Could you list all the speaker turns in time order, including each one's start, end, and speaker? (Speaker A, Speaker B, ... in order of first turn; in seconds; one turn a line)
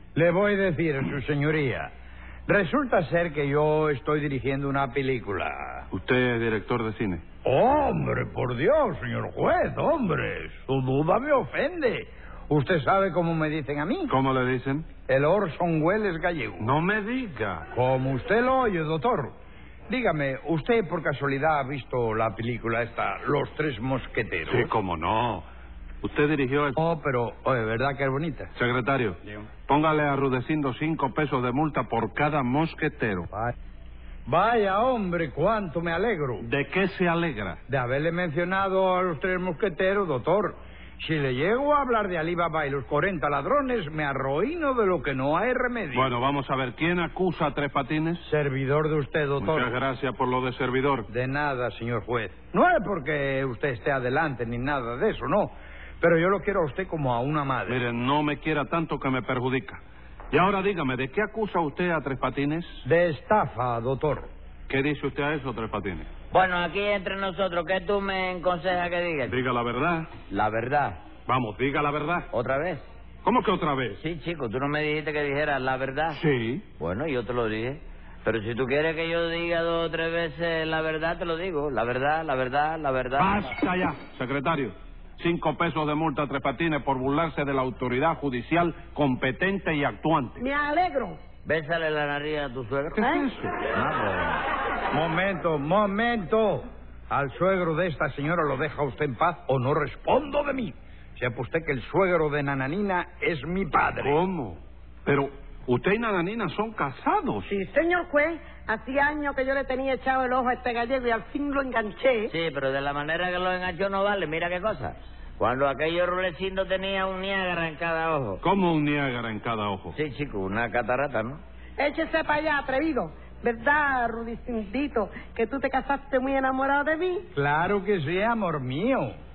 Speaker A: 0.1-1.9
Speaker A: 2.5-5.9
Speaker B: 5.9-7.2
Speaker A: 7.4-14.1
Speaker B: 14.1-14.9
Speaker A: 15.1-16.7
Speaker B: 16.6-17.7
Speaker A: 17.7-19.3
Speaker A: 19.9-24.7
Speaker B: 24.5-25.5
Speaker B: 26.0-26.8
Speaker A: 26.8-28.5
Speaker B: 28.6-33.3
Speaker A: 34.3-36.5
Speaker B: 36.4-37.6
Speaker A: 37.7-46.1
Speaker B: 45.9-48.2
Speaker A: 48.2-49.8
Speaker B: 49.4-51.1
Speaker A: 51.1-57.8
Speaker B: 57.7-62.8
Speaker A: 62.9-64.3
Speaker B: 64.7-66.1
Speaker C: 66.3-69.4
Speaker B: 69.3-70.1
Speaker C: 70.3-71.0
Speaker B: 71.3-72.3
Speaker C: 72.3-72.9
Speaker B: 73.2-74.0
Speaker C: 74.0-76.2
Speaker B: 76.1-76.6
Speaker C: 76.8-83.5
Speaker B: 83.2-90.4
Speaker D: 90.4-91.2
Speaker C: 91.5-93.1
Speaker B: 93.0-93.5
Speaker D: 93.0-93.3
Speaker C: 93.7-94.4
Speaker A: 94.9-104.2
Speaker B: 104.0-107.5
Speaker D: 107.5-112.3
Speaker C: 112.3-118.4
Speaker B: 118.4-120.0
Speaker C: 119.9-121.4
Speaker D: 121.8-127.3
Speaker A: 127.3-129.2